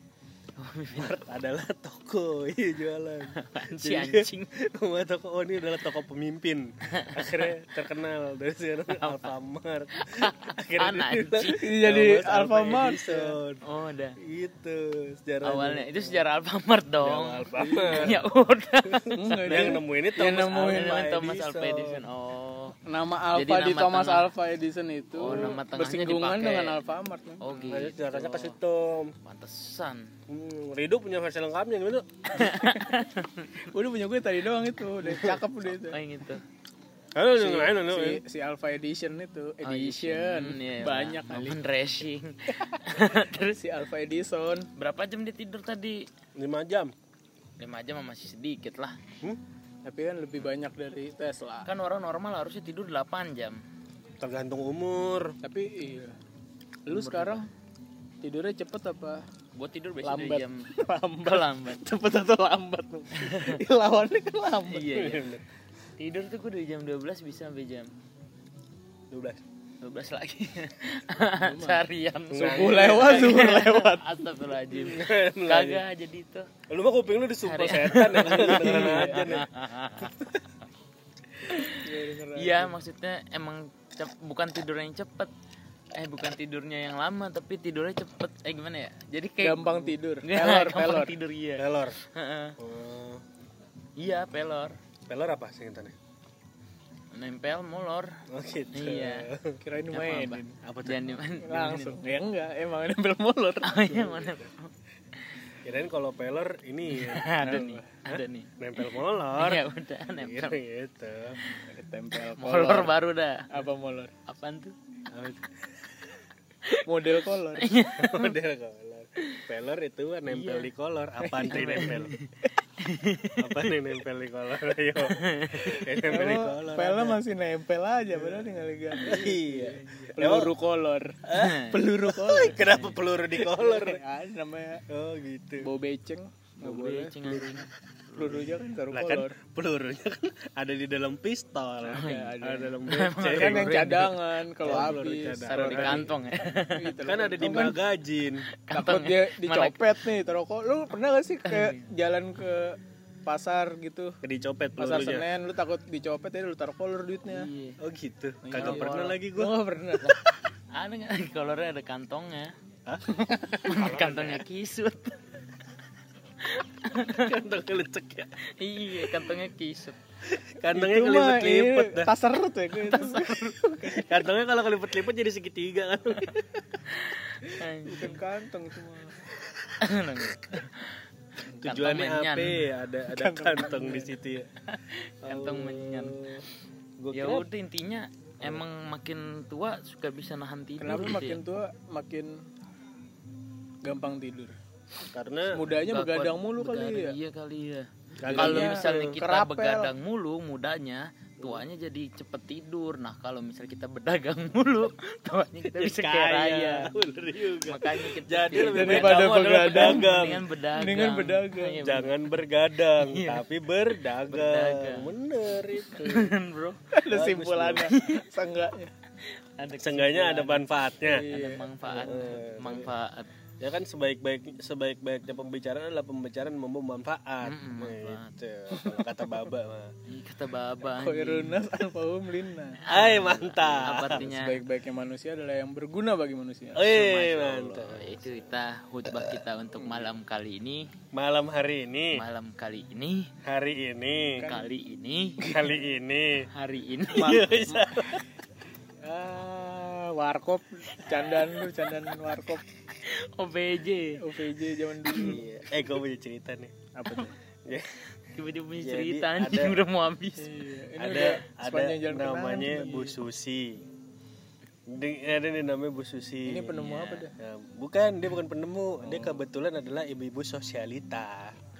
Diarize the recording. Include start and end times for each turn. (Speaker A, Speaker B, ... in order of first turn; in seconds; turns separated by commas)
Speaker A: 0.6-1.2, Speaker B: 0.9-13.6, Speaker A: 3.3-4.5, Speaker A: 6.9-7.5, Speaker A: 8.9-9.3, Speaker A: 9.9-11.6, Speaker C: 11.6-13.4, Speaker A: 13.6-14.2, Speaker B: 14.2-16.2, Speaker A: 15.4-19.8, Speaker B: 17.0-18.2, Speaker C: 17.6-18.1, Speaker B: 18.9-22.0, Speaker C: 19.1-21.0, Speaker A: 20.3-22.8, Speaker C: 22.9-27.4, Speaker A: 23.3-24.3, Speaker A: 25.2-26.8, Speaker A: 27.4-28.6, Speaker B: 27.6-29.1, Speaker A: 29.2-30.1, Speaker B: 30.3-32.6, Speaker A: 32.3-33.5, Speaker C: 33.6-36.0, Speaker A: 35.0-36.4, Speaker B: 37.1-38.2, Speaker C: 37.4-41.6, Speaker A: 39.6-43.6, Speaker C: 43.1-44.7, Speaker A: 44.8-46.0, Speaker B: 46.4-46.9, Speaker A: 47.6-49.0, Speaker C: 49.8-51.7, Speaker A: 51.6-53.6, Speaker B: 54.2-55.3, Speaker C: 55.4-56.1, Speaker C: 56.9-57.5, Speaker A: 56.9-57.4, Speaker C: 58.2-59.2, Speaker A: 59.5-60.7, Speaker C: 60.0-64.9, Speaker A: 61.2-61.8, Speaker A: 63.1-63.6, Speaker A: 64.7-65.2, Speaker B: 64.9-65.4, Speaker A: 66.0-67.9, Speaker B: 69.1-69.4, Speaker A: 69.8-76.5, Speaker C: 71.4-71.8, Speaker B: 72.3-73.4, Speaker C: 72.4-74.2, Speaker B: 74.7-75.8, Speaker B: 76.7-79.5, Speaker A: 77.4-80.2, Speaker C: 78.3-79.3, Speaker B: 80.0-80.2, Speaker A: 81.5-85.3, Speaker C: 81.7-82.7, Speaker A: 85.9-92.5, Speaker C: 89.4-91.1, Speaker B: 91.6-92.0, Speaker B: 92.6-93.2, Speaker A: 94.0-94.8, Speaker B: 95.1-95.9, Speaker A: 97.1-98.1, Speaker B: 98.3-99.6, Speaker A: 98.7-99.3, Speaker C: 99.6-100.6, Speaker A: 99.9-102.0, Speaker B: 100.6-101.0, Speaker C: 101.4-103.8, Speaker A: 103.6-104.7, Speaker B: 103.9-104.5, Speaker B: 105.6-107.3, Speaker A: 106.9-110.6, Speaker C: 107.4-108.0, Speaker B: 108.6-109.6, Speaker B: 110.2-111.4, Speaker C: 111.7-112.9, Speaker A: 112.3-113.5, Speaker C: 113.5-114.1, Speaker A: 114.2-114.7, Speaker B: 115.1-116.1, Speaker A: 116.6-118.3, Speaker C: 116.9-117.8, Speaker B: 117.9-122.1, Speaker A: 120.3-120.7, Speaker C: 121.2-122.0, Speaker A: 121.5-123.6, Speaker B: 123.4-127.2, Speaker A: 125.0-126.0, Speaker C: 126.0-131.2, Speaker B: 128.1-128.5, Speaker A: 129.0-129.2, Speaker B: 129.0-130.5, Speaker B: 131.2-134.0, Speaker A: 131.3-132.9, Speaker C: 131.7-132.7, Speaker C: 133.4-134.8, Speaker B: 134.9-135.7, Speaker C: 135.6-137.6, Speaker A: 136.6-138.5, Speaker C: 138.2-139.3, Speaker B: 138.9-143.8, Speaker A: 141.9-144.7, Speaker C: 141.9-146.1, Speaker B: 144.6-146.0, Speaker A: 145.5-147.0, Speaker C: 146.7-147.8, Speaker B: 147.0-148.5, Speaker A: 148.6-149.9, Speaker C: 148.7-154.2, Speaker A: 151.5-151.8, Speaker B: 154.2-155.3, Speaker C: 154.8-157.5, Speaker A: 157.3-157.8, Speaker B: 157.8-159.6, Speaker C: 158.4-160.2, Speaker A: 158.5-159.2, Speaker A: 160.7-162.5, Speaker C: 163.2-163.6, Speaker A: 163.6-165.2, Speaker B: 163.6-164.4, Speaker A: 166.4-167.3, Speaker B: 167.0-168.3, Speaker A: 168.6-170.0, Speaker B: 170.3-172.1, Speaker C: 170.7-174.0, Speaker A: 172.8-173.6, Speaker B: 173.8-176.3, Speaker A: 176.8-178.2, Speaker C: 177.8-179.2, Speaker A: 179.8-181.0, Speaker B: 181.5-184.5, Speaker A: 181.6-182.6, Speaker C: 183.1-184.1, Speaker A: 184.7-186.2, Speaker B: 185.2-186.4, Speaker B: 187.0-187.5, Speaker A: 187.1-191.4, Speaker C: 190.8-192.3, Speaker C: 193.8-194.5, Speaker B: 195.1-195.6, Speaker C: 195.5-197.2, Speaker A: 195.7-207.0, Speaker B: 198.2-199.2, Speaker C: 198.2-199.9, Speaker B: 205.6-210.4, Speaker A: 207.6-212.2, Speaker C: 208.7-211.8, Speaker B: 211.8-216.3, Speaker A: 212.8-213.4, Speaker A: 214.3-215.1, Speaker A: 216.0-216.9, Speaker C: 216.9-218.9, Speaker B: 217.1-217.9, Speaker A: 217.9-218.3, Speaker A: 219.2-223.3, Speaker B: 219.8-221.2, Speaker C: 221.0-221.7, Speaker B: 221.8-222.9, Speaker B: 223.6-229.9, Speaker A: 227.4-228.3, Speaker C: 228.7-229.3, Speaker A: 230.1-231.6, Speaker C: 230.8-232.8, Speaker A: 232.8-234.6, Speaker B: 232.9-234.3, Speaker C: 234.2-236.9, Speaker B: 236.7-238.3, Speaker A: 236.8-240.8, Speaker B: 239.8-240.1, Speaker B: 241.1-242.2, Speaker A: 242.1-243.3, Speaker B: 243.4-244.4, Speaker C: 244.4-244.7, Speaker A: 244.4-245.4, Speaker B: 245.4-246.5, Speaker A: 246.5-247.5, Speaker B: 247.1-248.2, Speaker C: 249.0-252.6, Speaker A: 253.0-254.2, Speaker C: 254.2-255.4, Speaker A: 255.1-255.3, Speaker B: 255.1-256.7, Speaker C: 256.9-257.3, Speaker B: 257.6-258.1, Speaker A: 258.3-261.4, Speaker B: 258.8-259.8, Speaker C: 260.4-263.2, Speaker B: 261.1-263.8, Speaker B: 264.9-271.6, Speaker C: 266.4-267.3, Speaker A: 266.8-267.2, Speaker A: 269.0-269.4